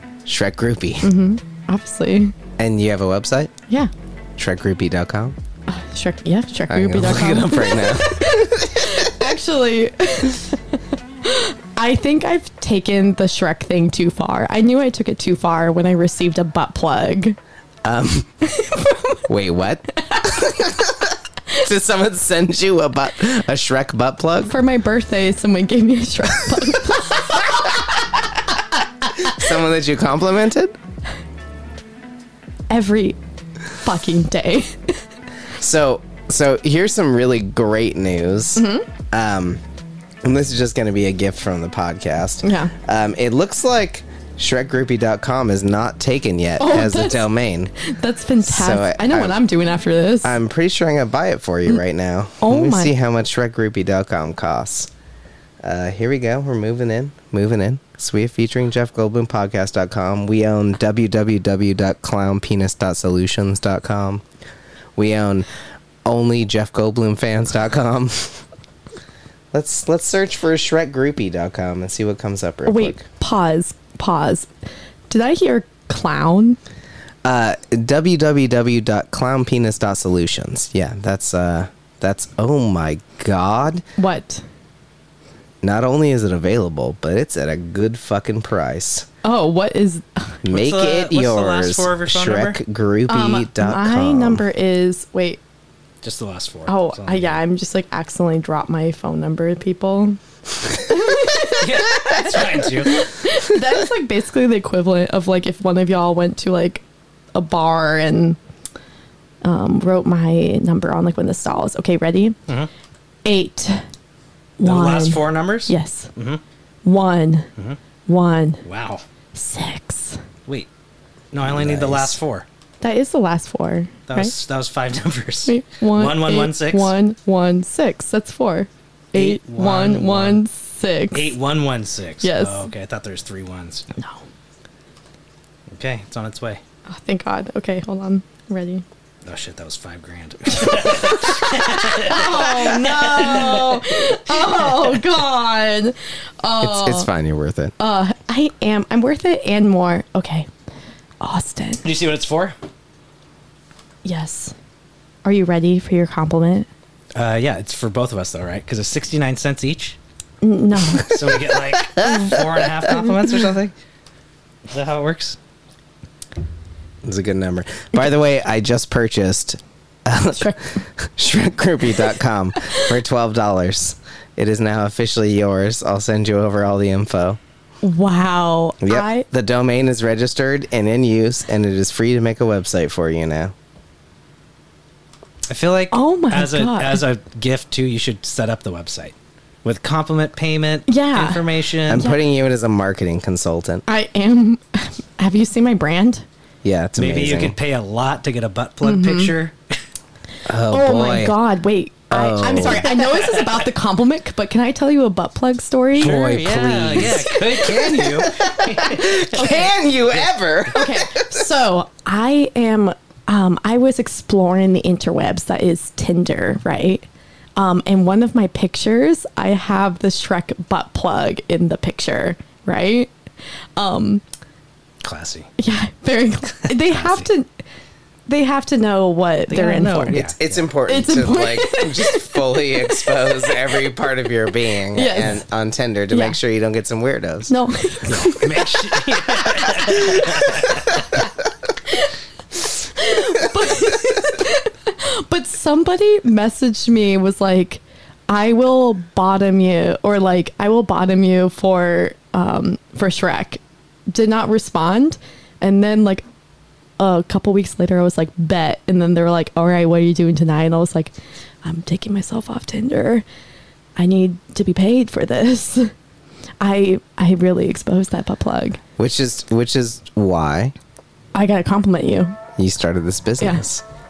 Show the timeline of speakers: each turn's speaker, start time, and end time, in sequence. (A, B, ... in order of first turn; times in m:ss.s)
0:00.3-0:01.1 A
0:01.0-0:02.3 B
0:02.6-0:03.5 A
0:04.4-0:05.4 A
0:05.7-0:17.4 B
0:06.7-0:09.1 A
0:17.8-0:18.3 A
0:18.5-0:19.2 B
0:19.3-0:24.5 A
0:24.4-0:27.6 B
0:29.2-0:30.8 A
0:32.7-0:33.2 B
0:33.8-0:34.9 B
0:35.6-0:39.6 A
0:38.6-0:38.9 B
0:40.2-0:47.7 A
0:42.4-0:42.7 B
0:46.6-0:47.3 B
0:47.8-0:50.4 B
0:48.4-0:49.4 A
0:50.2-0:54.9 A
0:52.4-0:52.9 B
0:55.6-1:04.2 A
1:05.0-1:05.5 A
1:06.0-1:08.4 A
1:09.5-1:13.0 A
1:12.6-1:14.5 B
1:15.1-1:16.6 B
1:17.2-1:23.8 A
1:24.0-1:24.4 B
1:25.6-1:29.1 A
1:29.2-1:30.4 B
1:30.4-1:34.4 A
1:30.5-1:32.6 C
1:33.1-1:35.4 B
1:36.0-1:37.4 C
1:36.7-1:40.2 B
1:40.9-1:46.8 B
1:41.6-1:43.1 C
1:47.4-1:48.4 B
1:49.4-1:52.4 B
1:53.2-1:53.8 B
1:54.6-1:56.1 B
1:54.6-1:56.4 C
1:56.8-1:57.5 B
1:58.1-1:58.6 B
1:58.6-1:59.0 C
1:59.4-2:00.2 B
2:01.3-2:02.5 C
2:01.4-2:02.2 A
2:02.8-2:04.3 B
2:04.1-2:07.0 C
2:05.5-2:11.4 B
2:09.1-2:10.4 C
2:11.1-2:13.9 C
2:12.2-2:12.7 B
2:15.7-2:16.6 C
2:16.9-2:18.8 B
2:19.2-2:23.8 C
2:20.5-2:27.1 B
2:26.6-2:27.7 A
2:27.8-2:30.5 B
2:31.2-2:31.8 B
2:31.8-2:32.6 C
2:34.0-2:34.5 B
2:35.2-2:36.7 B
2:37.1-2:40.0 C
2:40.4-2:41.2 B
2:41.0-2:43.7 C
2:44.7-2:45.4 C
2:47.0-2:57.4 A
2:57.8-2:59.3 B
2:58.8-3:03.5 A
3:05.5-3:12.1 C
3:05.9-3:07.0 B
3:10.9-3:11.4 B
3:11.9-3:13.8 A
3:13.9-3:16.2 B
3:16.6-3:17.6 A
3:17.0-3:19.6 C
3:18.8-3:19.3 B
3:20.5-3:21.4 A
3:20.7-3:26.2 B
3:22.1-3:22.9 A
3:22.7-3:23.6 C
3:26.0-3:31.3 A
3:26.0-3:29.4 C
3:27.3-3:28.0 B
3:29.3-3:29.7 B
3:30.7-3:43.1 B
3:43.8-3:44.2 B
3:45.0-3:45.5 C
3:45.6-3:47.5 B
3:46.7-3:47.3 C
3:48.3-3:50.3 B
3:49.5-3:50.6 C
3:50.1-3:57.5 A
3:50.9-3:53.5 B
3:54.9-3:55.4 B
3:56.1-3:56.4 B
3:57.5-3:58.4 B
3:58.1-4:01.2 C
4:02.8-4:16.2 B
4:17.0-4:23.2 B
4:24.0-4:25.9 B
4:26.6-4:28.8 B
4:29.0-4:30.7 A
4:31.3-4:32.4 B
4:32.6-4:33.8 A